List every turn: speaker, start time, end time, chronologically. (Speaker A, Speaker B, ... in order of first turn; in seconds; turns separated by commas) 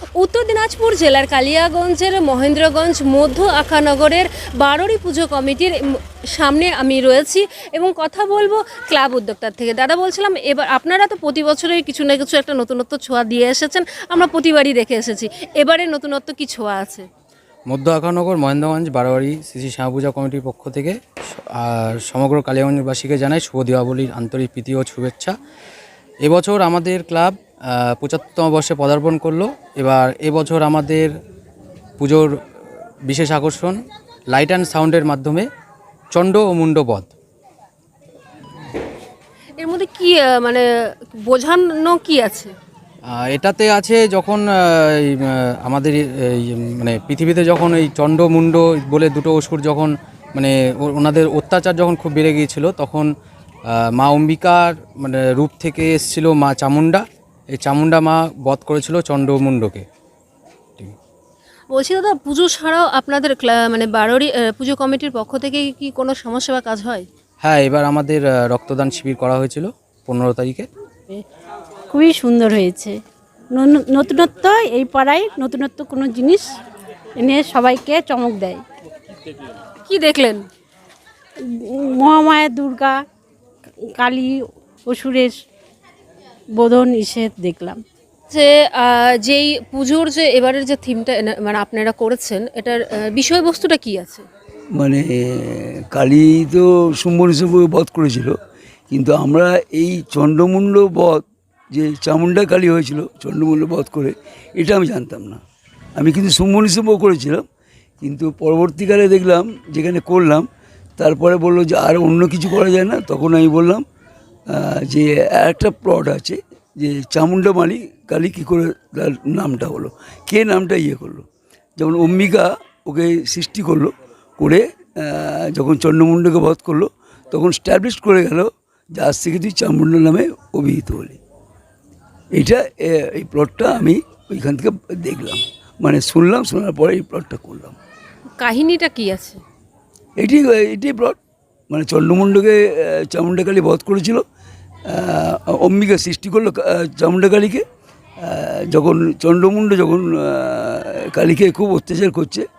Speaker A: 0.1-17.1, Speaker B: 17.7-25.4, Speaker B: 26.2-31.1, Speaker B: 32.0-32.3, Speaker B: 33.0-35.5, Speaker B: 36.1-37.1, Speaker A: 39.6-42.5, Speaker B: 43.1-53.1, Speaker B: 53.7-57.0, Speaker B: 57.5-59.9, Speaker A: 61.7-67.1, Speaker B: 67.4-70.7, Speaker C: 71.9-73.0, Speaker C: 73.5-76.6, Speaker C: 77.2-78.6, Speaker A: 79.8-80.5, Speaker C: 81.4-83.0, Speaker C: 83.8-85.4, Speaker C: 86.5-87.8, Speaker A: 88.3-94.2, Speaker D: 94.8-98.3, Speaker D: 98.9-105.4, Speaker D: 106.0-107.4, Speaker D: 108.0-110.5, Speaker D: 111.0-113.8, Speaker D: 114.5-121.2, Speaker D: 121.8-131.2, Speaker D: 132.3-137.8, Speaker A: 138.4-139.4, Speaker D: 140.2-141.2, Speaker D: 141.7-144.2, Speaker D: 144.9-147.6, Speaker D: 148.2-152.5